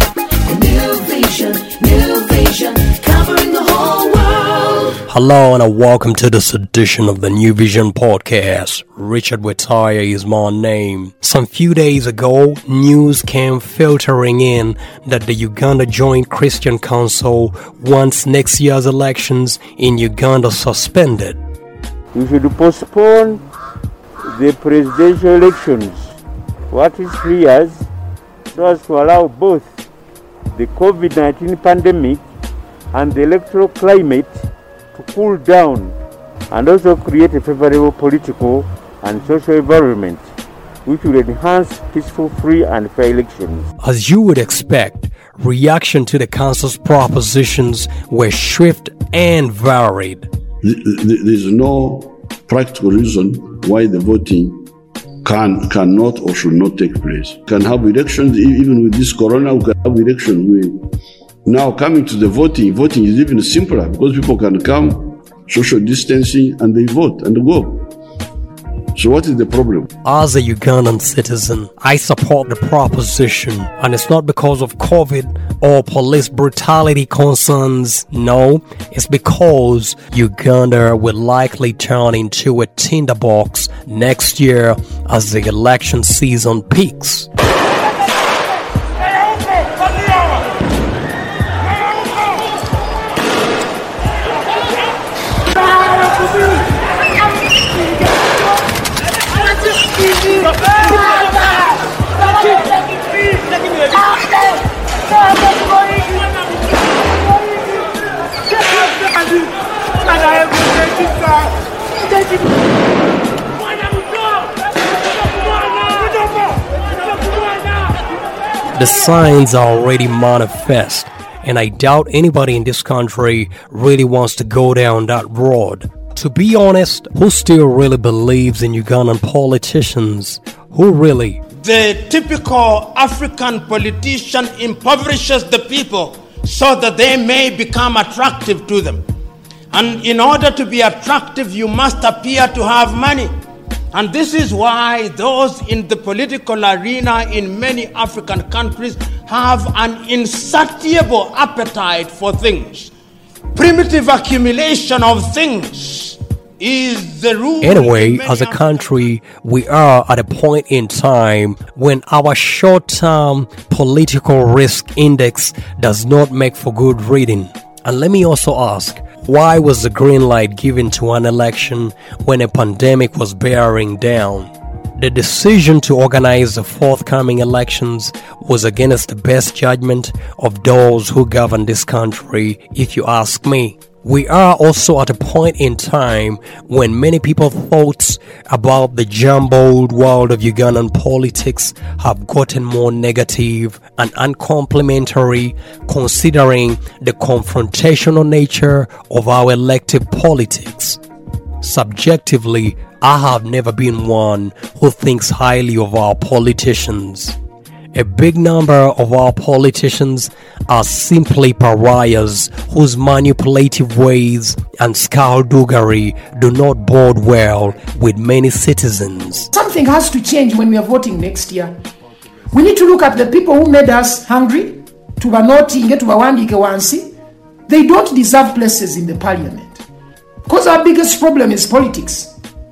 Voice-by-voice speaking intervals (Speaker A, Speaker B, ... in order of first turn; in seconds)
Speaker A: 0.5-5.0
Speaker B: 5.1-21.4, 43.8-50.3, 70.0-87.3, 118.7-131.4, 157.6-201.0, 201.6-207.4, 207.9-219.5
Speaker C: 22.1-23.4, 24.3-26.0, 26.7-27.8, 28.5-29.6, 30.5-32.2, 32.9-34.3, 35.0-35.9, 36.5-40.2, 40.9-43.6
Speaker D: 50.6-54.7, 55.2-60.8, 61.5-67.9, 69.0-69.9
Speaker E: 99.6-104.3, 105.4-107.8, 108.4-111.6, 113.5-114.6, 115.2-118.0, 131.6-139.0, 139.7-143.3, 143.9-152.9, 153.6-158.8
Speaker F: 219.5-221.8, 222.5-227.1, 227.7-229.8, 230.5-232.3